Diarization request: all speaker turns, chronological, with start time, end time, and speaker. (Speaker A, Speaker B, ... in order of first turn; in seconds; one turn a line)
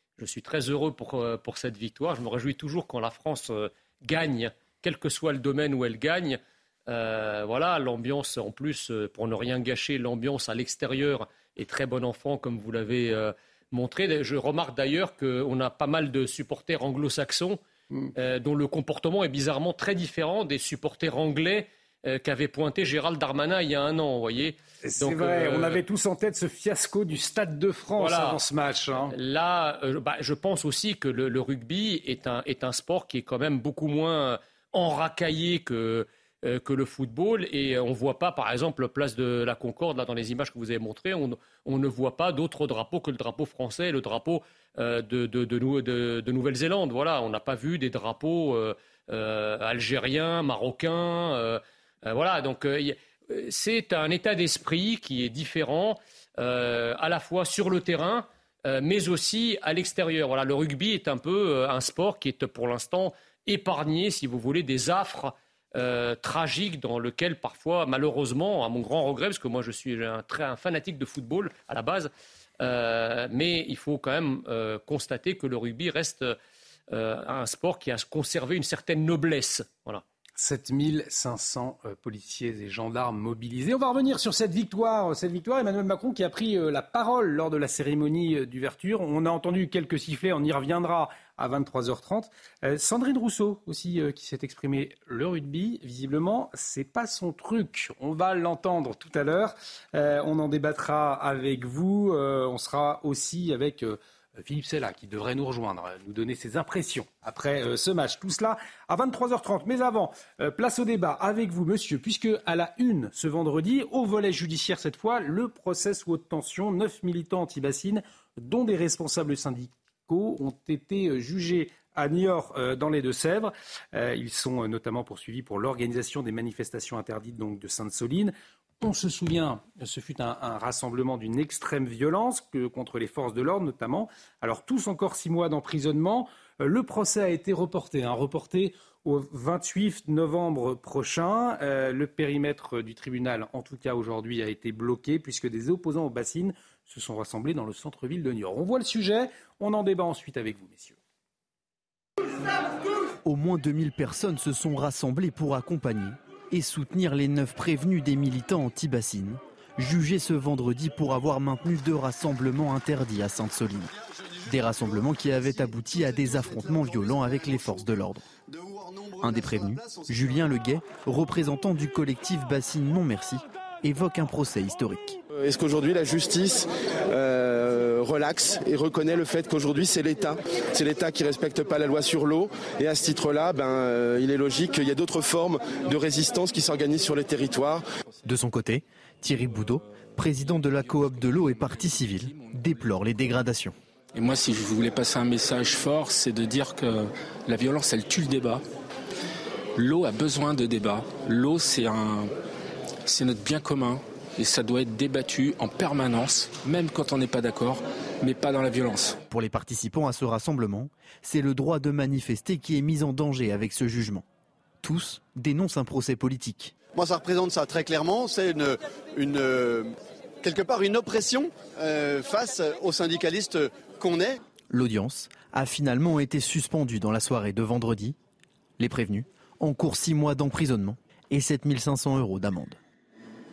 Speaker A: 0.2-17.6
Speaker A: 18.2-25.8
Speaker B: 24.8-29.1
Speaker A: 28.0-28.4
Speaker A: 29.1-76.3
Speaker A: 76.9-80.0
Speaker B: 80.4-151.0
Speaker C: 153.2-163.9
Speaker C: 164.4-168.2
Speaker C: 169.2-175.2
Speaker D: 175.3-187.8
Speaker C: 188.2-193.8
Speaker E: 194.1-198.7
Speaker E: 199.8-202.3
Speaker E: 203.1-209.2
Speaker C: 209.3-214.2
Speaker C: 214.8-216.8
Speaker F: 216.8-224.4
Speaker C: 224.7-228.2
Speaker C: 228.8-232.8